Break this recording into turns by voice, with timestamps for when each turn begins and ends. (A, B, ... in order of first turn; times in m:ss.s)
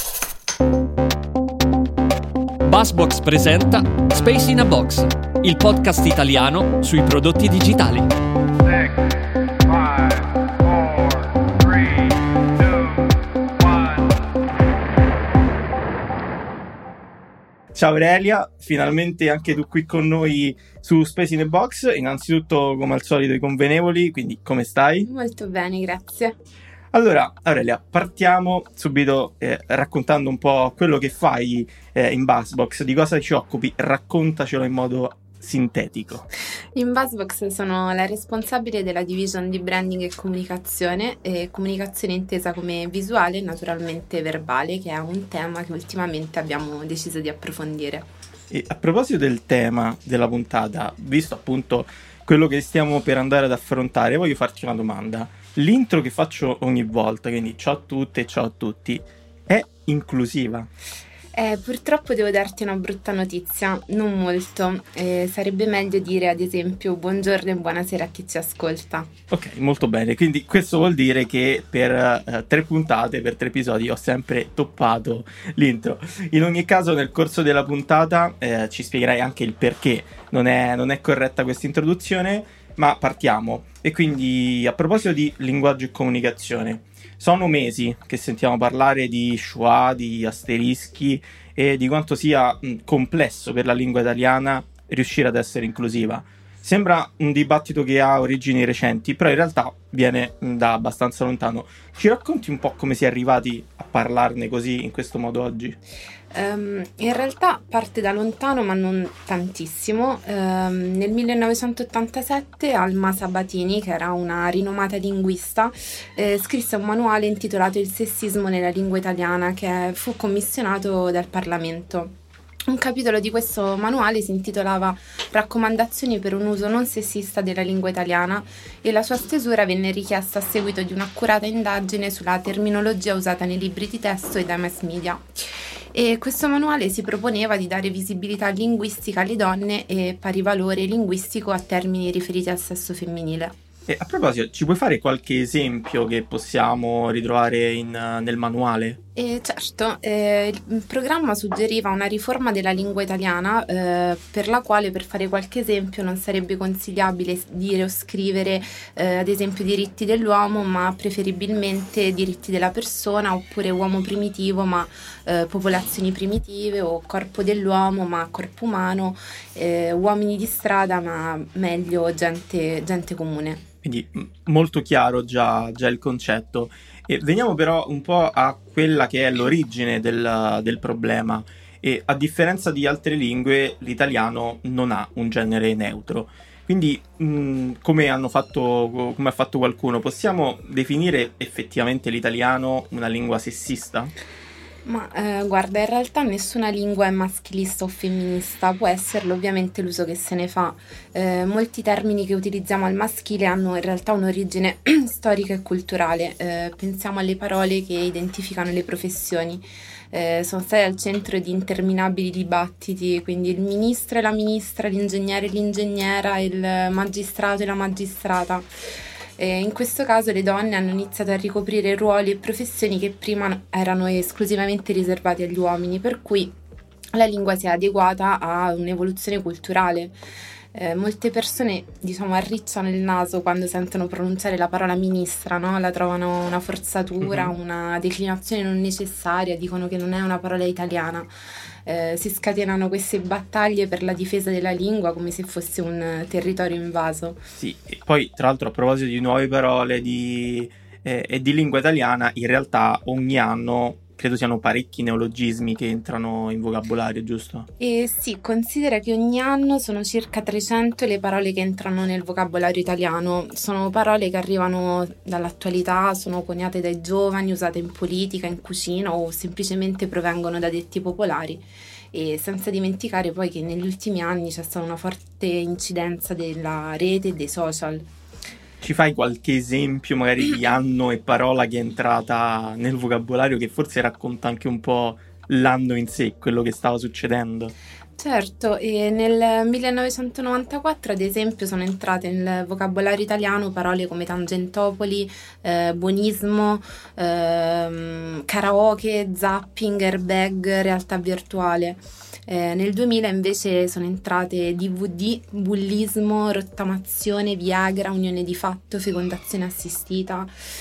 0:02.6-0:08.1 A
0:09.9-0:10.2 A
0:10.7-0:11.8 A
0:17.7-0:25.1 B
0:25.1-0:26.4 C
0:26.9-0:36.3 B
0:36.7-0:48.1 C
0:48.5-1:00.7 B
1:01.3-1:09.1 C
1:09.3-1:45.8 B
1:46.3-2:02.1 C
2:02.7-2:23.5 C
2:23.9-2:29.0 B
2:29.2-2:53.6 C
2:53.8-3:14.1 B
3:14.8-3:38.7 C
3:39.4-3:46.5 C
3:47.1-3:50.1 C
3:50.7-4:01.3 C
3:57.2-3:57.5 B
4:01.8-4:07.4 C
4:07.5-4:17.7 B
4:17.8-4:38.1 C
4:38.8-4:47.7 B
4:48.2-5:10.5 C